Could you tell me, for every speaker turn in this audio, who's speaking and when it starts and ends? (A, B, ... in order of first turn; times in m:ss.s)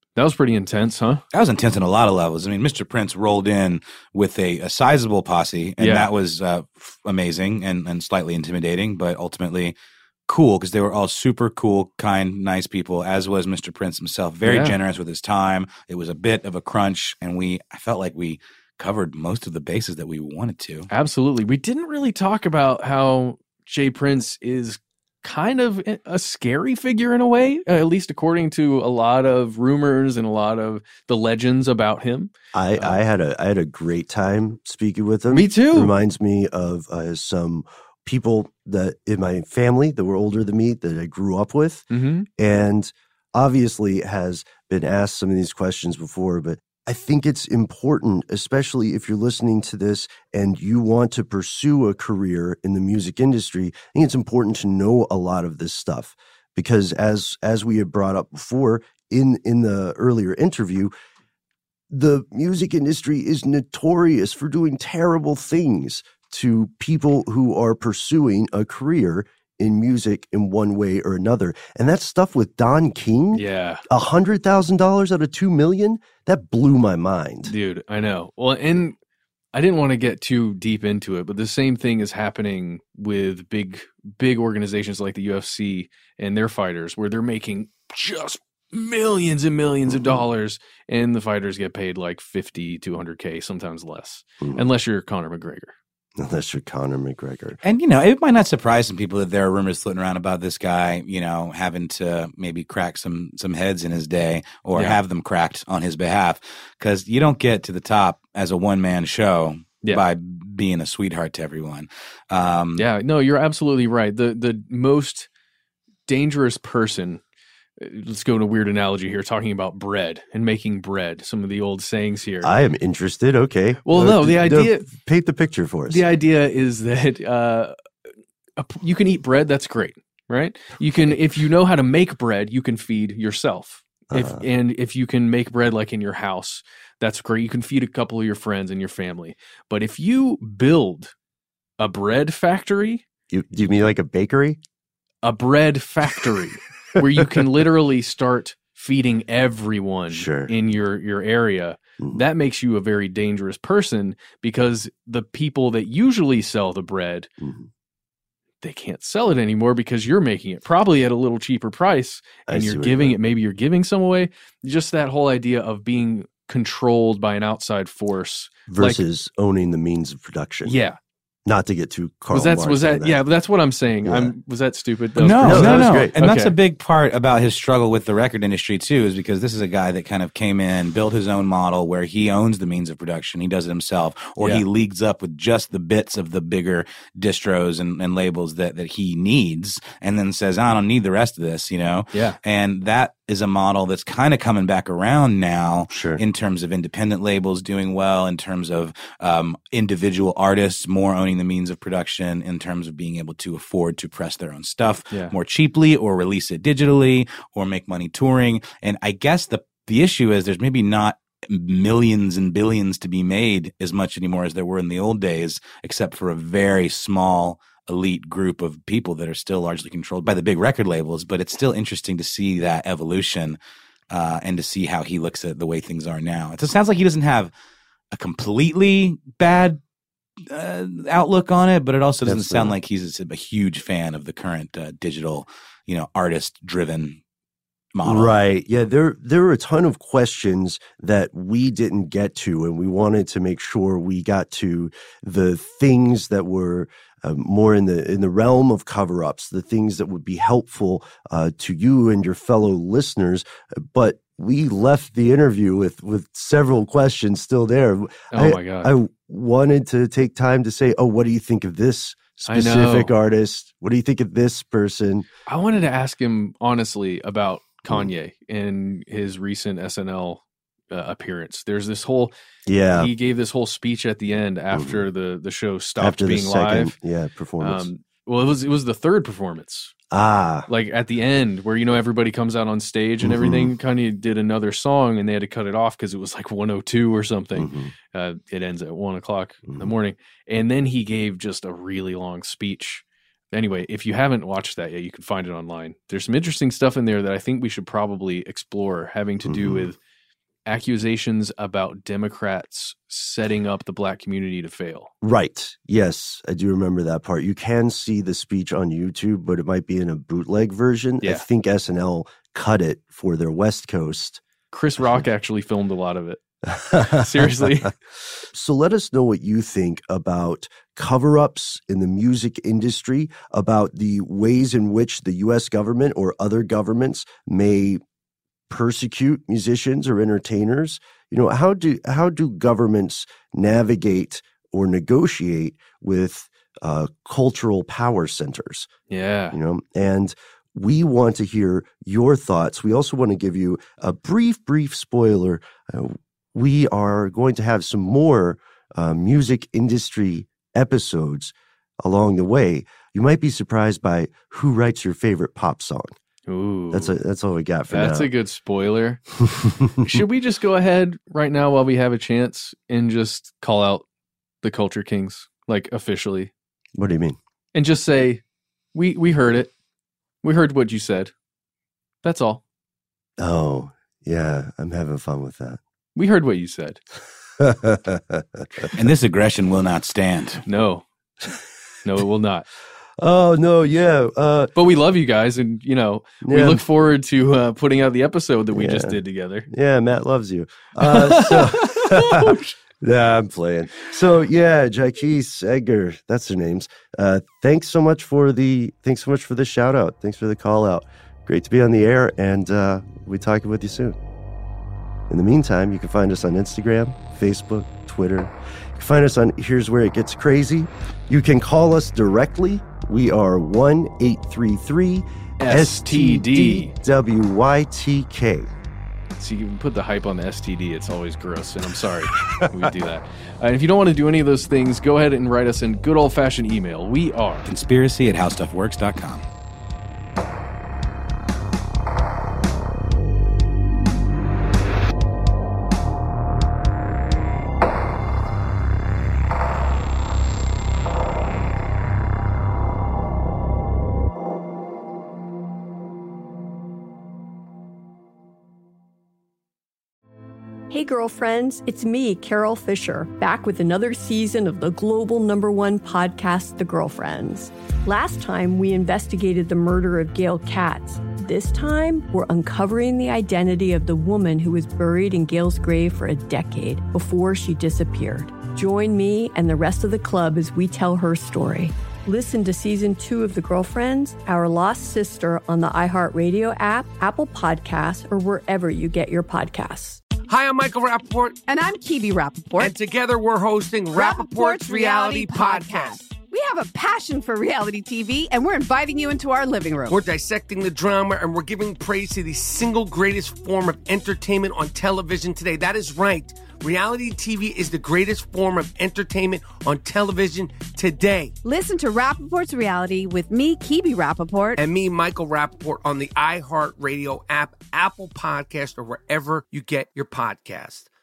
0:00.2-0:01.2 A
0:01.3-0:09.8 B
0:05.8-0:06.1 A
0:10.3-0:20.9 B
0:14.4-0:14.8 A
0:20.9-0:33.0 A
0:32.5-1:00.9 C
0:35.3-0:35.9 A
0:41.9-0:42.3 A
1:01.9-1:17.5 C
1:13.3-1:13.8 A
1:17.4-1:19.0 A
1:19.5-1:35.7 A
1:29.9-1:30.3 C
1:34.4-1:34.6 C
1:36.2-1:37.6 C
1:37.6-1:52.8 B
1:52.8-1:55.3 A
1:56.1-1:57.2 A
1:57.8-2:02.5 A
2:02.4-2:06.1 C
2:03.8-2:04.9 A
2:05.9-2:07.8 A
2:08.6-2:21.1 A
2:14.1-2:14.5 C
2:21.8-2:23.0 A
2:23.3-2:24.6 C
2:25.2-2:37.3 A
2:30.1-2:30.5 C
2:37.4-2:37.7 C
2:38.6-2:49.0 A
2:42.5-2:43.2 C
2:48.7-2:50.8 C
2:50.6-2:51.0 A
2:51.5-2:53.2 C
2:52.3-2:56.6 A
2:54.0-2:54.3 C
2:55.2-3:43.6 B
2:55.4-2:56.2 C
3:04.4-3:04.6 A
3:12.1-3:12.4 A
3:15.9-3:16.2 C
3:44.1-3:47.5 B
3:48.1-3:49.8 B
3:50.5-3:57.2 B
3:52.2-3:52.8 C
3:57.9-3:58.4 B
3:58.0-4:25.3 C
4:18.3-4:18.9 A
4:22.5-4:23.1 A
4:25.5-4:32.3 A
4:32.7-4:33.1 C
4:32.9-4:37.0 A
4:34.7-4:35.1 C
4:36.0-4:37.9 C
4:37.6-4:39.9 A
4:40.1-4:40.7 C
4:40.7-5:00.0 A
4:43.2-4:43.7 C
4:47.6-4:47.9 C
4:49.7-4:49.9 C
4:59.4-4:59.9 C
5:00.7-5:05.1 A
5:05.2-5:14.4 C
5:14.7-5:16.4 A
5:16.7-5:17.8 C
5:17.1-5:17.9 A
5:18.5-5:28.0 C
5:28.7-5:38.9 C
5:39.1-5:39.6 A
5:39.5-5:56.2 C
5:56.5-5:57.2 A
5:56.9-5:58.3 C
5:57.9-5:59.2 A
5:59.5-6:00.2 C
6:00.0-6:04.0 A
6:04.6-6:06.5 A
6:07.0-6:07.4 C
6:07.8-6:08.4 A
6:08.9-6:09.7 A
6:10.4-6:11.3 A
6:12.2-6:12.6 A
6:13.4-6:15.8 C
6:16.2-6:17.0 A
6:17.6-6:18.9 C
6:19.0-6:20.6 B
6:20.7-6:21.0 A
6:22.0-6:22.7 A
6:23.2-6:24.7 C
6:24.8-6:29.7 A
6:26.4-6:26.8 C
6:28.7-6:44.2 C
6:31.0-6:32.8 A
6:45.3-6:58.7 C
6:55.6-6:56.9 A
6:59.4-7:07.7 A
7:07.7-7:09.4 B
7:30.9-8:00.2 D
8:00.5-8:01.6 E
8:01.7-8:03.0 F
8:02.8-8:06.2 E
8:04.1-8:10.2 F
8:10.1-8:21.5 E
8:21.6-8:24.8 F
8:24.8-8:31.1 E